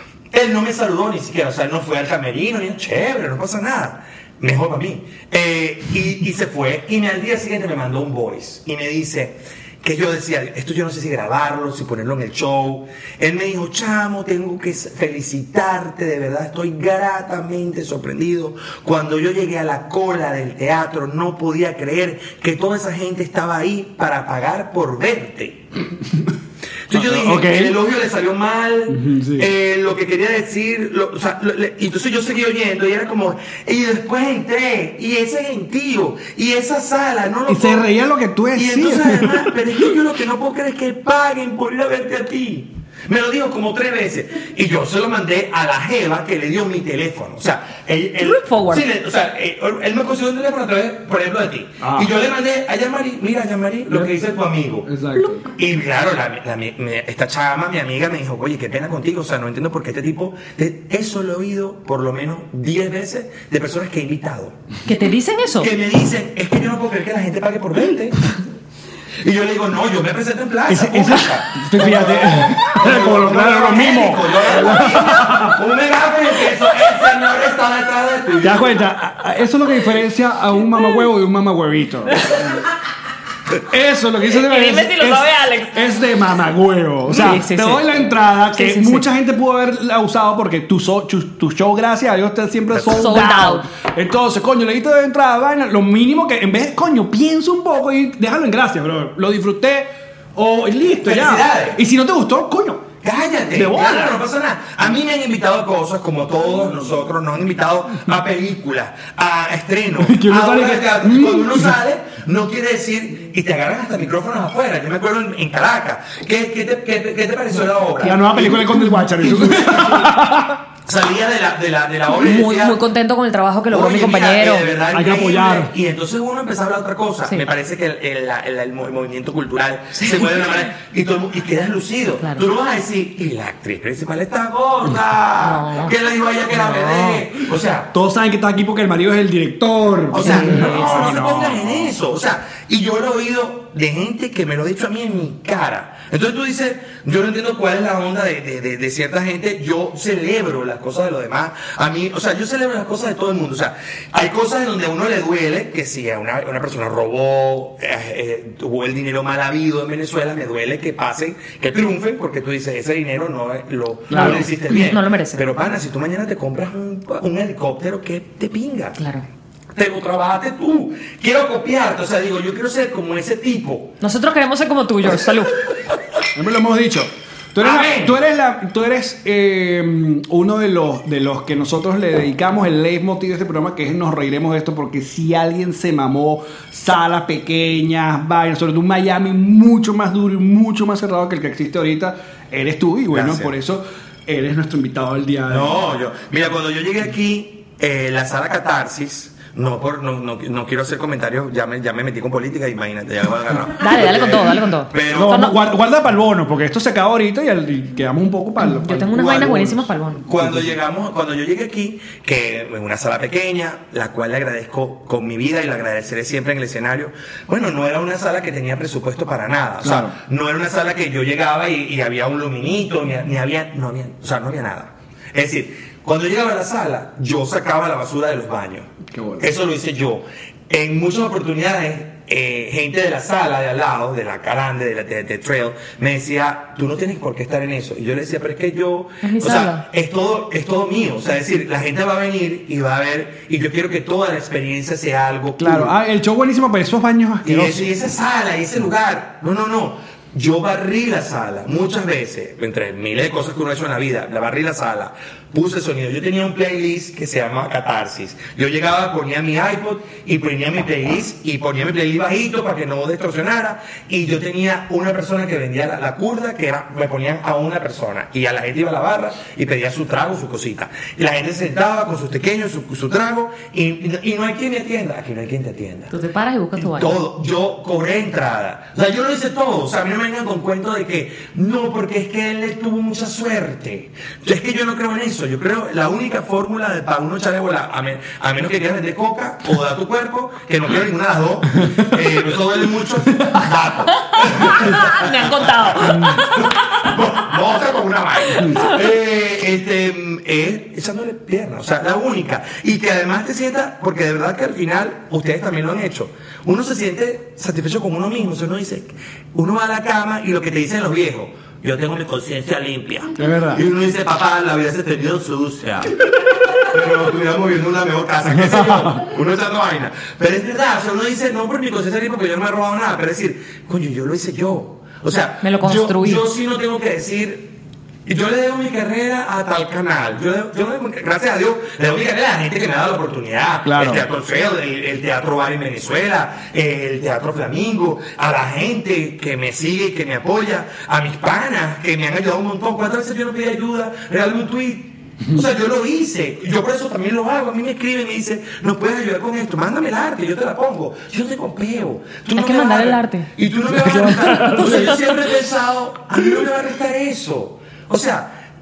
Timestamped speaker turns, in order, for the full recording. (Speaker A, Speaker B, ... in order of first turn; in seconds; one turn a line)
Speaker A: 0.3-25.6
Speaker A: 26.9-37.9
Speaker B: 26.9-27.8
Speaker B: 28.9-29.5
Speaker B: 37.5-39.5
Speaker A: 38.5-54.9
Speaker C: 48.2-48.8
Speaker B: 51.8-52.1
Speaker B: 54.9-55.5
Speaker A: 55.5-64.6
Speaker C: 64.8-65.7
Speaker A: 65.6-68.2
Speaker A: 69.2-78.7
Speaker B: 70.7-75.6
Speaker B: 78.4-82.5
Speaker B: 83.7-102.9
Speaker C: 84.3-85.9
Speaker C: 87.1-89.1
Speaker A: 92.7-93.0
Speaker C: 92.9-93.7
Speaker A: 101.0-101.8
Speaker A: 103.0-120.2
Speaker B: 103.5-104.2
Speaker B: 110.0-111.7
Speaker B: 118.0-120.6
Speaker A: 120.8-122.8
Speaker C: 122.1-124.7
Speaker A: 123.7-137.9
Speaker B: 124.9-125.7
Speaker C: 129.9-130.3
Speaker C: 135.4-136.0
Speaker C: 136.5-137.2
Speaker B: 137.9-141.9
Speaker A: 140.1-169.0
Speaker C: 140.2-141.2
Speaker B: 164.1-164.5
Speaker C: 164.1-165.4
Speaker C: 169.0-169.2
Speaker A: 169.7-174.0
Speaker C: 174.0-175.7
Speaker B: 176.3-195.8
Speaker A: 177.6-178.2
Speaker A: 193.1-193.5
Speaker A: 195.5-205.4
Speaker C: 203.8-205.6
Speaker B: 205.1-209.8
Speaker C: 208.6-210.2
Speaker A: 209.2-209.5
Speaker A: 210.3-245.9
Speaker B: 210.4-210.7
Speaker B: 219.8-220.1
Speaker B: 229.1-229.5
Speaker C: 239.2-239.8
Speaker B: 245.6-247.9
Speaker A: 247.4-276.1
Speaker C: 276.1-277.2
Speaker A: 276.8-316.2
Speaker C: 294.3-296.7
Speaker B: 296.1-296.4
Speaker B: 313.4-313.8
Speaker A: 316.8-327.7
Speaker B: 318.5-319.2
Speaker C: 325.6-326.4
Speaker A: 328.2-358.5
Speaker B: 333.8-334.2
Speaker C: 352.6-353.5
Speaker B: 354.0-354.9
Speaker C: 354.4-355.1